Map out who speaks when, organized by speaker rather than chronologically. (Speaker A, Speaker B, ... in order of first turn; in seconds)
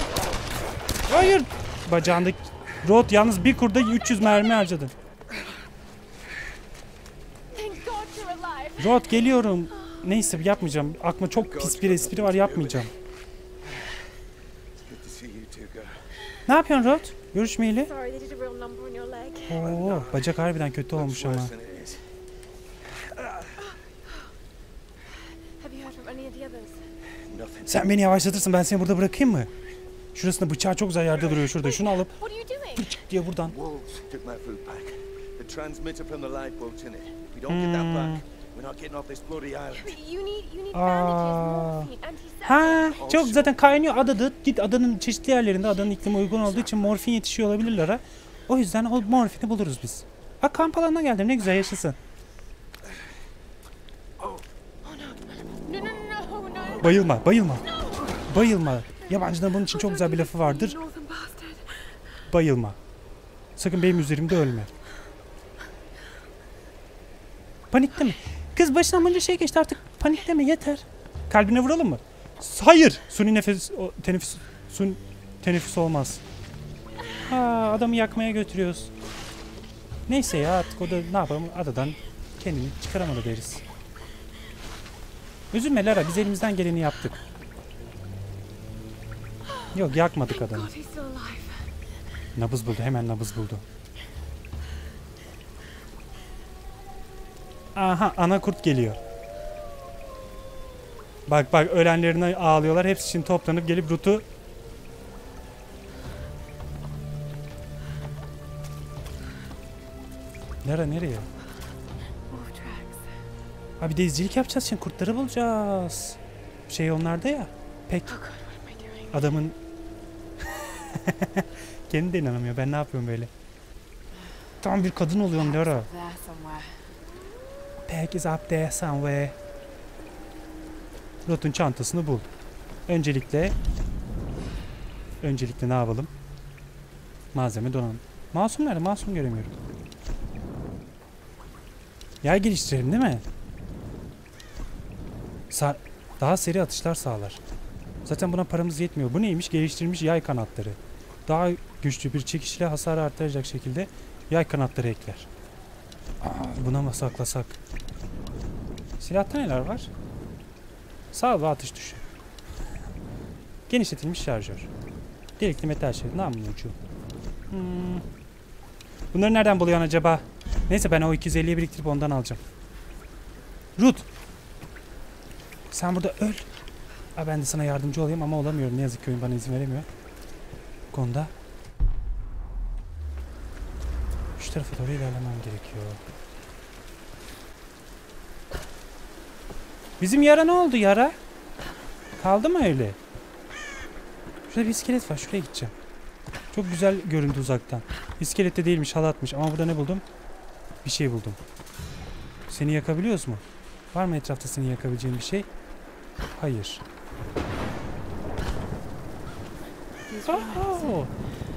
Speaker A: 1.1-4.9, 8.8-12.9, 16.5-17.9, 19.4-21.5, 27.7-29.5, 30.1-32.2, 32.7-33.5, 37.5-38.2, 40.7-41.9, 42.5-52.0, 56.8-60.8, 62.3-62.8, 63.6-64.7, 67.7-76.2, 77.2-78.9, 80.1-83.6, 85.5-87.2, 89.7-90.7, 92.3-93.6, 97.8-99.0, 101.3-104.2, 110.6-111.3, 113.8-118.2, 119.1-119.6, 120.5-123.3, 124.6-125.9, 127.9-129.4, 131.2-132.3, 132.9-133.6, 135.2-136.1, 137.3-139.6, 142.2-143.2, 145.5-147.4, 148.1-155.3, 156.2-157.6, 159.0-159.9, 161.1-162.0, 163.7-164.7, 165.4-166.8, 167.5-168.0, 169.1-172.4, 173.8-174.1, 175.7-176.5, 177.2-179.9, 180.9-181.3, 184.4-186.0, 190.0-191.2, 192.2-193.0, 194.5-195.7, 196.5-200.0, 200.8-201.4, 202.5-205.5, 206.4-206.8, 210.3-211.1
Speaker B: 7.5-9.1, 17.8-19.7, 25.6-26.8, 31.4-33.0, 39.7-43.0, 46.4-46.7, 54.9-58.4, 59.1-62.0, 90.1-91.7, 112.3-113.1, 118.1-119.3, 125.3-126.7, 210.1-211.1
Speaker C: 11.3-12.8, 14.9-16.0, 19.7-20.3, 20.9-22.0, 27.3-27.9, 33.4-40.0, 43.0-43.7